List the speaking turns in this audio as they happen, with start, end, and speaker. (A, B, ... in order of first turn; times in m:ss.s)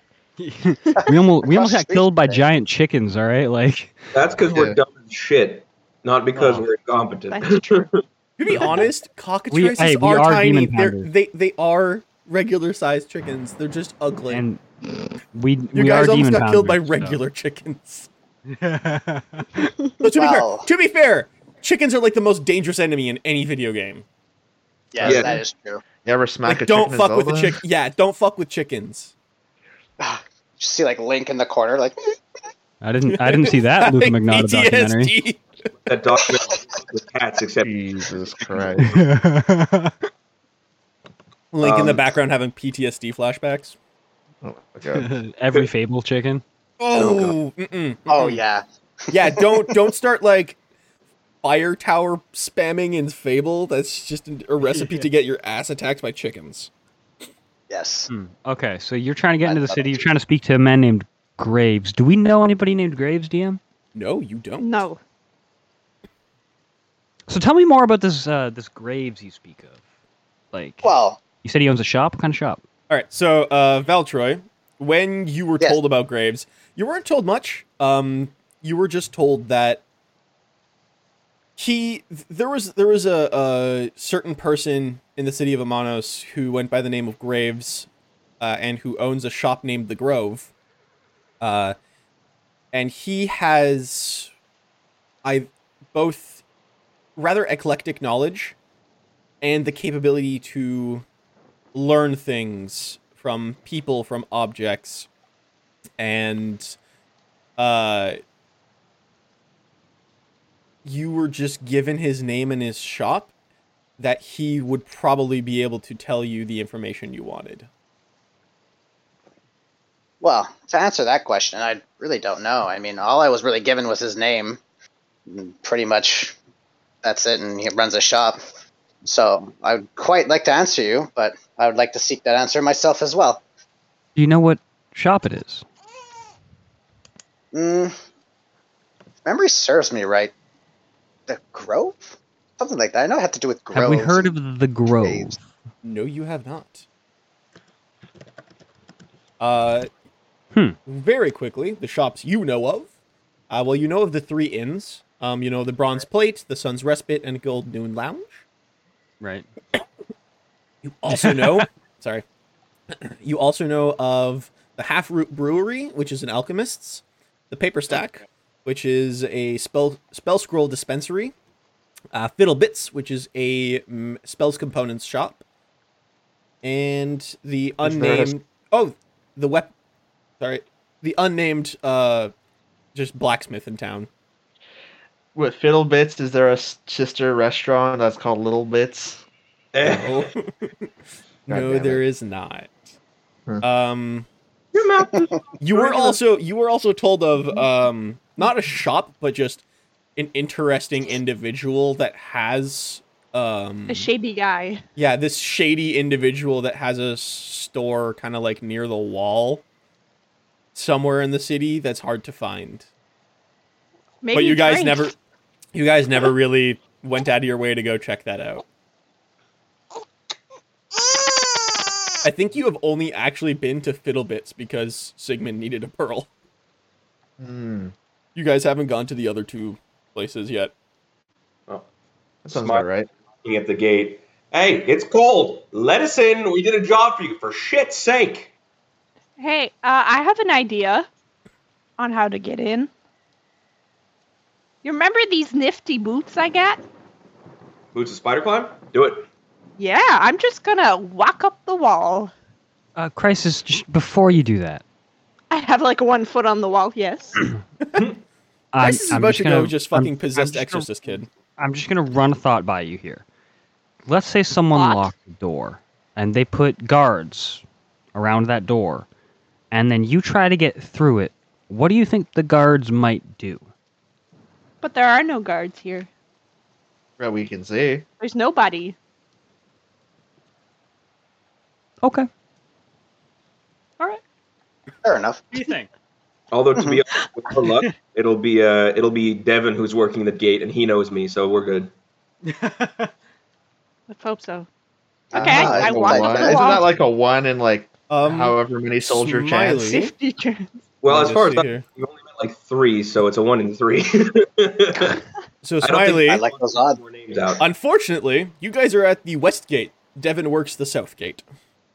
0:00.4-0:04.0 A
0:01.1-0:02.4 B
0:04.2-0:08.0 C
0:04.5-0:04.8 D
0:06.3-0:06.7 A
0:07.3-0:07.9 E
0:08.4-0:14.5 F
0:09.5-0:11.1 A
0:14.3-0:14.6 A
0:15.3-0:17.2 A
0:15.7-0:18.1 F
0:18.5-0:19.6 A
0:20.0-0:24.0 F
0:20.1-0:20.7 B
0:24.9-0:25.8 B
0:25.0-0:25.3 D
0:25.0-0:25.4 C
0:26.0-0:27.6 D
0:26.4-0:29.1 F
0:30.0-0:32.0 B
0:32.8-0:35.2 A
0:33.1-0:35.4 F
0:35.9-0:37.8 C
0:37.6-0:39.0 D
0:38.8-0:40.0 A
0:41.5-0:43.8 F
0:41.6-0:42.1 C
0:44.4-0:45.1 D
0:45.0-0:46.4 A
0:46.8-0:48.4 F
0:48.1-0:49.8 B
0:49.1-0:50.6 F
0:51.4-0:56.7 F
0:54.6-0:55.0 A
0:57.7-0:58.1 B
0:58.1-1:03.6 A
0:59.4-1:00.1 B
1:03.9-1:04.8 F
1:04.6-1:05.0 E
1:07.3-1:09.8 A
1:10.5-1:10.9 A
1:10.8-1:11.2 B
1:11.4-1:12.6 A
1:12.9-1:19.8 F
1:21.6-1:27.9 F
1:28.4-1:30.5 F
1:31.4-1:31.8 F
1:32.7-1:34.3 F
1:35.2-1:36.4 F
1:37.2-1:38.6 F
1:39.4-1:41.0 F
1:41.7-1:45.1 F
1:46.0-1:46.8 F
1:47.6-1:48.2 F
1:50.8-1:53.3 F
1:54.0-1:57.7 F
2:00.2-2:04.6 B
2:05.3-2:06.3 B
2:07.0-2:08.4 B
2:09.0-2:13.4 B
2:14.2-2:15.6 A
2:17.5-2:17.9 B
2:19.3-2:20.3 B
2:21.3-2:24.3 B
2:23.7-2:25.4 A
2:25.8-2:26.8 F
2:29.4-2:29.9 F
2:30.9-2:32.9 F
2:33.5-2:38.4 F
2:39.2-2:39.5 A
2:40.8-2:42.2 F
2:41.1-2:41.6 A
2:42.9-2:51.3 F
2:52.1-2:55.4 F
2:56.6-2:59.7 F
2:57.8-2:58.3 D
3:00.4-3:02.3 F
3:02.9-3:04.1 F
3:05.4-3:09.2 D
3:09.7-3:10.3 C
3:10.0-3:10.7 F
3:11.5-3:12.9 F
3:11.5-3:12.0 D
3:13.6-3:14.3 F
3:14.7-3:16.2 C
3:15.6-3:19.6 F
3:20.2-3:24.1 F
3:23.9-3:24.8 E
3:25.0-3:29.6 F
3:30.8-3:32.9 F
3:34.2-3:35.1 E
3:34.3-3:35.1 F
3:35.7-3:38.6 F
3:42.2-3:46.3 F
3:47.4-3:47.9 D
3:48.4-3:50.7 F
3:52.4-3:53.1 D
3:52.5-3:52.8 C
3:53.4-3:58.5 C
3:59.4-4:01.1 E
4:02.0-4:02.9 E
4:04.8-4:06.8 E
4:07.9-4:09.3 C
4:09.8-4:12.3 E
4:13.0-4:14.8 A
4:15.5-4:17.5 E
4:18.7-4:21.0 A
4:18.8-4:21.3 F
4:21.6-4:23.2 A
4:24.1-4:27.6 A
4:24.7-4:25.2 E
4:28.1-4:29.1 A
4:29.7-4:33.7 A
4:34.8-4:36.1 E
4:37.2-4:38.0 D
4:38.2-4:39.0 E
4:42.0-4:42.3 A
4:45.0-4:45.4 B
4:45.5-4:45.9 A
4:46.5-4:51.9 C
4:46.8-4:47.0 B
4:52.4-4:53.1 A
4:54.1-4:54.7 E
4:55.3-4:56.8 B
4:55.3-4:59.8 D
4:55.4-4:56.9 E
4:58.1-5:00.1 F
4:59.8-5:00.7 E
5:01.0-5:05.2 C
5:01.1-5:01.8 F
5:05.6-5:06.4 F
5:05.8-5:07.6 C
5:06.2-5:07.0 B
5:07.6-5:11.4 F